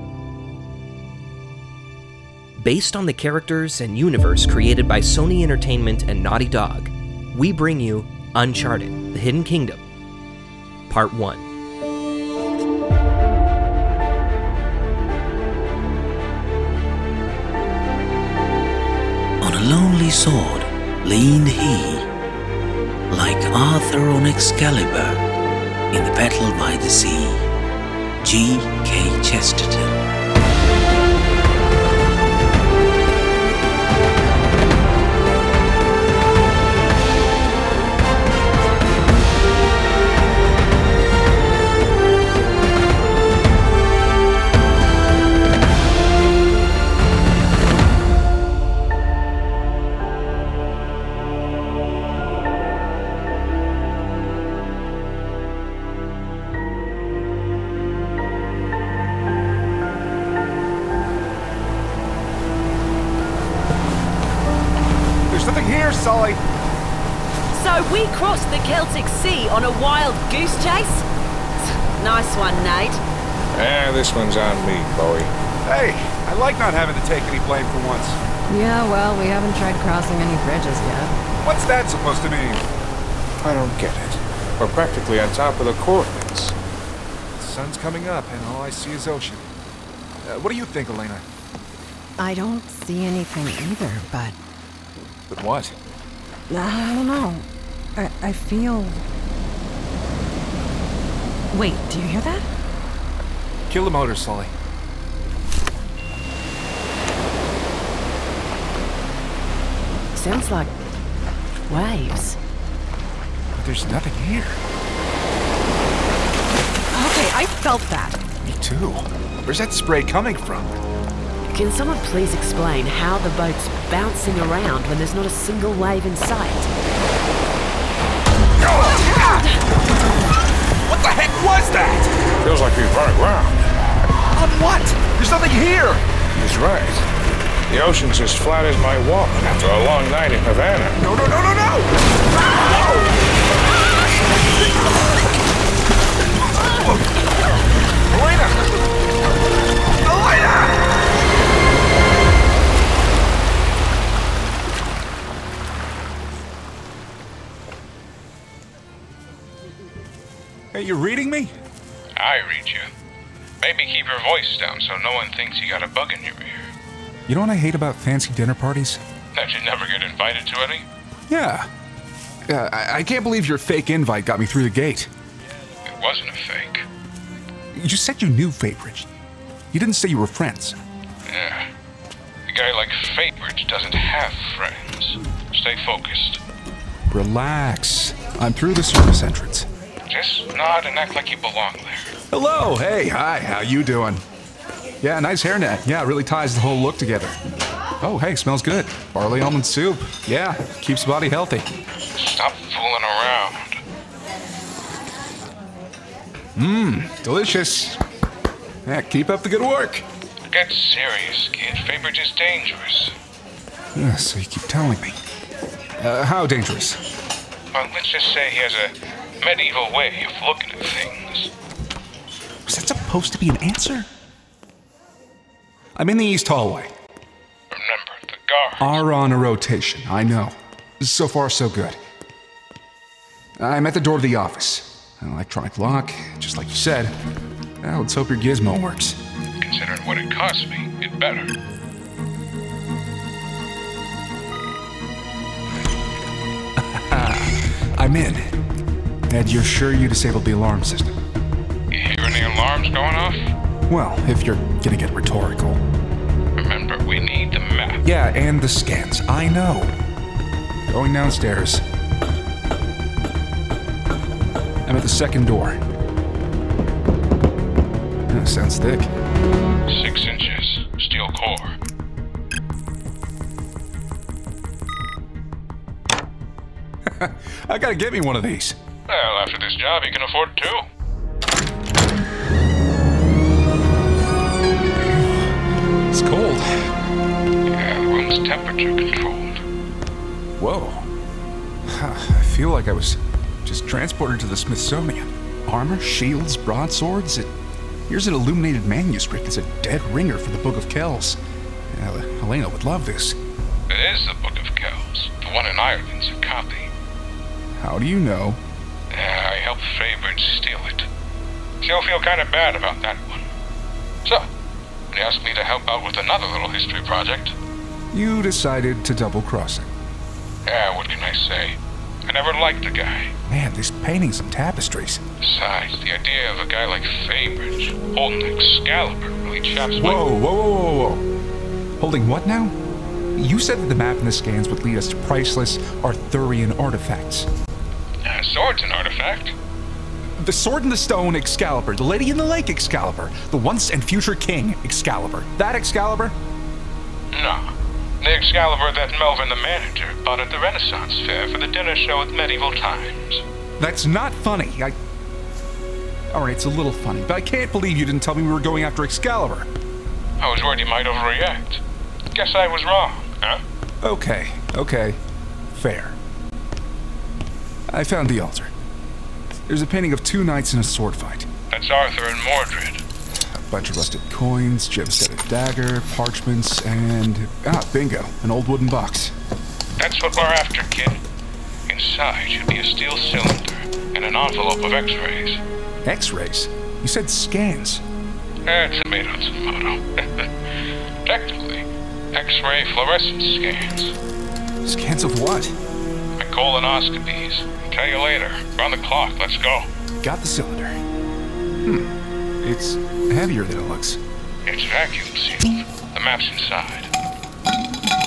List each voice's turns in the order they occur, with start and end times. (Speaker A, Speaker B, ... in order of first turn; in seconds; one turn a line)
Speaker A: 2.6-9.8
Speaker A: 10.9-11.4
Speaker B: 19.4-22.1
Speaker B: 23.1-25.2
Speaker B: 25.9-27.5
Speaker B: 28.2-30.0
Speaker C: 65.3-66.4
Speaker D: 67.5-71.0
Speaker D: 72.0-73.0
Speaker E: 73.5-75.3
Speaker C: 75.6-78.2
Speaker F: 78.5-81.1
Speaker C: 81.4-82.7
Speaker E: 83.4-86.5
Speaker C: 87.3-89.5
Speaker C: 90.2-91.2
Speaker F: 92.2-94.4
Speaker C: 95.3-95.8
Speaker F: 96.5-99.0
Speaker F: 101.5-102.5
Speaker C: 103.7-104.5
Speaker D: 110.1-110.7
Speaker D: 111.7-112.4
Speaker C: 113.5-114.6
Speaker F: 116.9-118.2
Speaker C: 118.4-120.8
Speaker D: 121.5-126.7
Speaker C: 128.6-129.5
Speaker C: 130.8-132.1
Speaker E: 132.4-133.7
Speaker C: 134.3-136.1
Speaker E: 136.3-137.1
Speaker E: 137.7-141.0
Speaker C: 141.0-143.1
Speaker C: 144.4-145.2
Speaker C: 146.3-148.9
Speaker C: 149.8-150.9
Speaker C: 160.7-161.5
Speaker E: 162.2-162.9
Speaker E: 163.6-166.7
Speaker C: 167.3-169.0
Speaker E: 169.3-170.8
Speaker C: 171.3-171.7
Speaker C: 172.5-175.1
Speaker E: 175.8-176.8
Speaker C: 177.7-179.1
Speaker C: 179.7-180.8
Speaker E: 181.2-181.7
Speaker E: 182.5-186.4
Speaker C: 187.1-189.7
Speaker E: 190.1-192.1
Speaker C: 192.3-194.2
Speaker C: 195.0-197.4
Speaker C: 198.0-201.7
Speaker E: 202.2-203.8
Speaker C: 206.5-208.0
Speaker C: 208.8-210.1
Speaker E: 210.5-213.2
Speaker C: 213.9-215.2
Speaker C: 216.0-217.0
Speaker E: 217.7-221.5
Speaker C: 222.7-224.1
Speaker C: 225.9-226.9
Speaker E: 227.7-229.0
Speaker C: 228.8-232.0
Speaker C: 233.6-237.2
Speaker C: 237.8-239.2
Speaker E: 239.6-241.5
Speaker C: 246.8-248.5
Speaker C: 249.3-251.2
Speaker E: 251.9-253.5
Speaker C: 253.9-255.8
Speaker E: 256.6-258.0
Speaker C: 258.0-259.9
Speaker C: 260.9-261.8
Speaker C: 264.9-265.8
Speaker C: 268.3-269.1
Speaker E: 269.9-271.8
Speaker C: 277.1-278.8
Speaker E: 279.1-280.9
Speaker C: 285.1-285.5
Speaker C: 286.1-286.9
Speaker E: 287.7-289.6
Speaker C: 290.6-291.1
Speaker C: 291.9-297.5
Speaker C: 298.1-301.4
Speaker C: 301.9-303.4
Speaker E: 303.9-306.9
Speaker C: 307.8-308.6
Speaker E: 309.1-311.1
Speaker E: 311.8-313.5
Speaker E: 315.1-317.5
Speaker C: 318.1-319.9
Speaker E: 320.6-323.3
Speaker C: 323.5-325.2
Speaker E: 325.4-330.3
Speaker C: 330.0-331.2
Speaker C: 332.0-332.8
Speaker C: 333.4-337.5
Speaker E: 338.2-339.5
Speaker C: 340.4-346.4
Speaker E: 347.3-353.4
Speaker C: 353.8-355.0
Speaker C: 356.3-359.7
Speaker E: 360.4-361.8
Speaker E: 362.4-363.6
Speaker C: 364.0-365.2
Speaker C: 365.7-366.2
Speaker C: 367.9-368.7
Speaker C: 369.7-371.5
Speaker E: 371.7-373.0
Speaker C: 373.4-379.3
Speaker E: 380.0-381.2
Speaker E: 381.9-385.6
Speaker C: 386.0-388.0
Speaker E: 388.6-394.1
Speaker C: 394.8-395.8
Speaker E: 396.4-399.9
Speaker C: 400.2-401.0
Speaker C: 401.8-404.2
Speaker E: 404.6-407.1